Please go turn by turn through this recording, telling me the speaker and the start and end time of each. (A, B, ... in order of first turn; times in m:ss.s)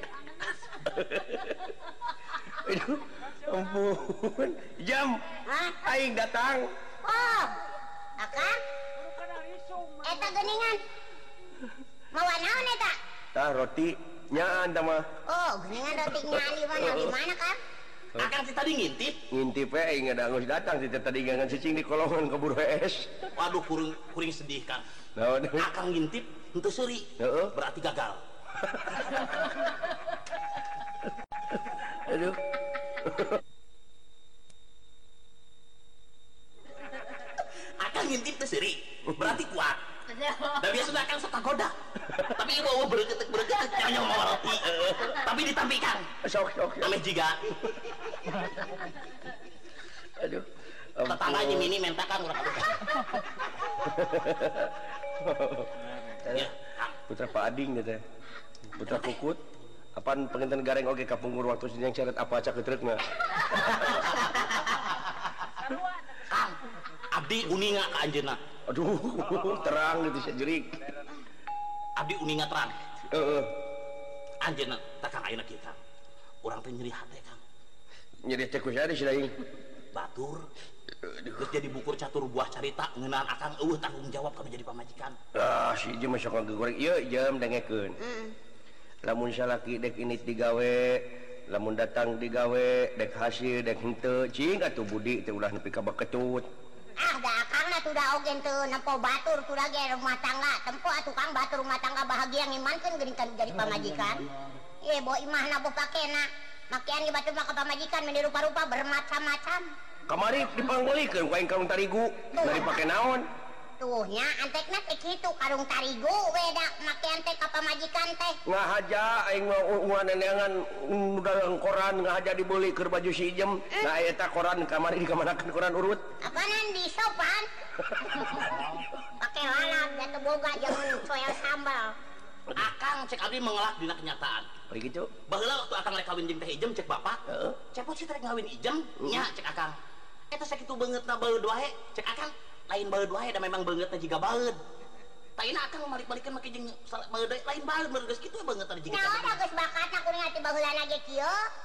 0:00.5-0:01.7 A
0:02.5-0:05.2 A
0:05.4-0:05.8 B
0:05.8-0:06.7 A
0:07.0-0:07.5 B
0:08.2-0:08.6 B
0:10.0-0:10.8 B
0:12.1-0:13.0 B
0:13.4-0:15.0 A
0:15.3-0:17.6 B
0:16.1-0:17.1 A
0:18.2-0:19.2 C
0:19.3-0:23.2 A
0:23.4-0:24.8 C
0:25.2-0:25.6 A
0:25.6-0:28.2 C
0:27.2-0:27.5 A
0:28.6-0:28.9 A
0:32.0-0:32.4 A
0:33.0-0:33.4 A
0:37.8-0:46.1 C
0:44.5-0:45.2 A
0:46.2-0:47.0 A
0:46.8-0:47.5 C
0:50.2-0:50.4 A
0:51.0-0:51.7 A
0:51.1-0:52.8 C
0:53.8-0:55.7 A
0:56.2-0:56.5 A
0:56.3-0:57.0 C
0:57.1-0:58.0 A
0:58.8-0:59.4 A
0:58.9-0:59.1 C
1:00.0-1:03.0 A
1:03.6-1:03.8 A
1:03.8-1:04.4 C
1:06.3-1:06.6 C
1:07.1-1:08.4 C
1:08.7-1:10.8 A
1:12.0-1:12.8 C
1:13.1-1:13.5 A
1:14.4-1:15.8 C
1:16.4-1:17.4 C
1:18.2-1:19.4 A
1:19.9-1:20.5 C
1:21.0-1:21.5 A
1:21.4-1:25.2 C
1:25.3-1:28.0 A
1:28.0-1:28.4 B
1:29.0-1:36.5 A
1:37.0-1:44.3 B
1:44.8-1:49.7 B
1:50.1-1:53.2 A
1:52.3-1:52.8 B
1:53.8-1:58.4 B
1:58.5-2:06.0 A
2:06.2-2:07.5 B
2:09.2-2:12.0 B
2:12.5-2:14.5 C
2:14.7-2:15.1 A
2:15.3-2:19.8 C
2:17.3-2:17.6 A
2:19.0-2:19.3 A
2:20.3-2:24.6 C
2:25.4-2:29.4 C
2:28.9-2:31.4 B